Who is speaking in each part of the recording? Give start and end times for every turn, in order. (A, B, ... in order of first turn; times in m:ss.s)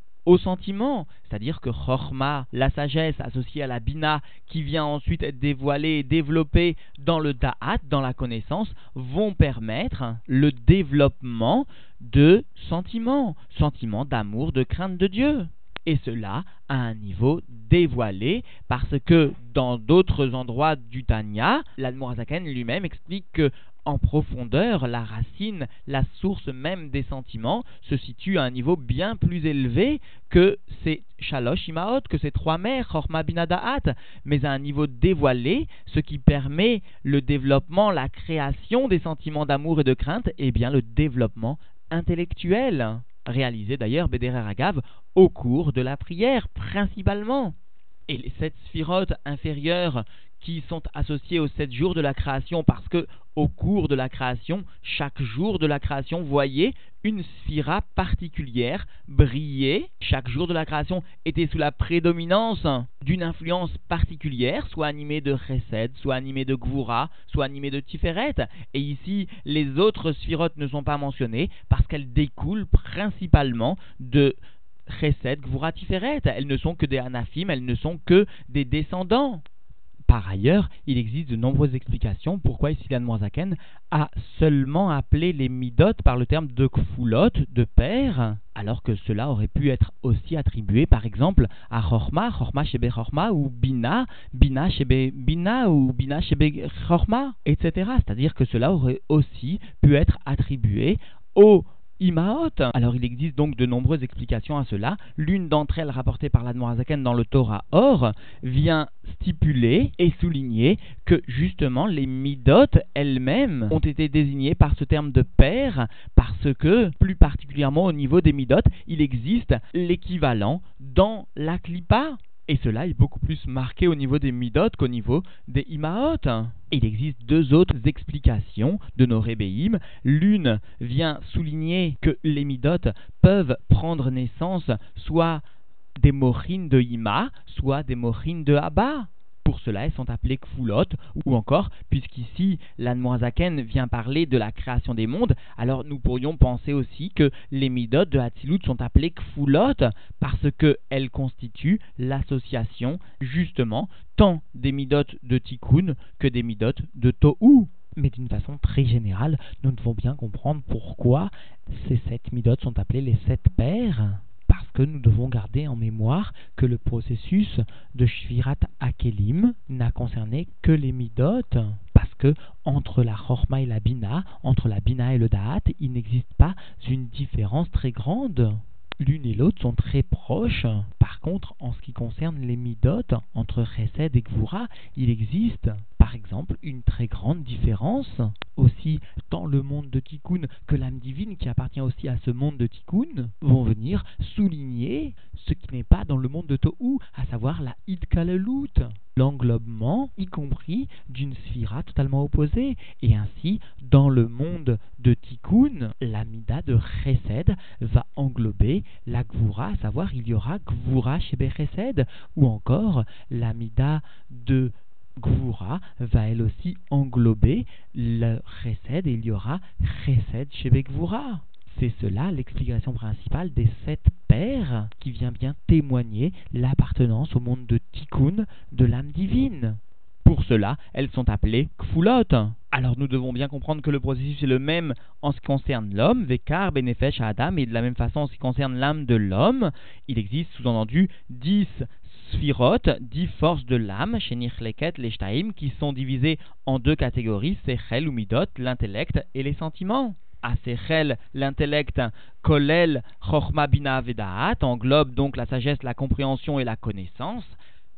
0:00.2-0:47.5 A
0:48.1-1:14.4 A
1:14.9-1:19.4 A
1:20.1-2:15.4 A
2:16.0-4:17.6 A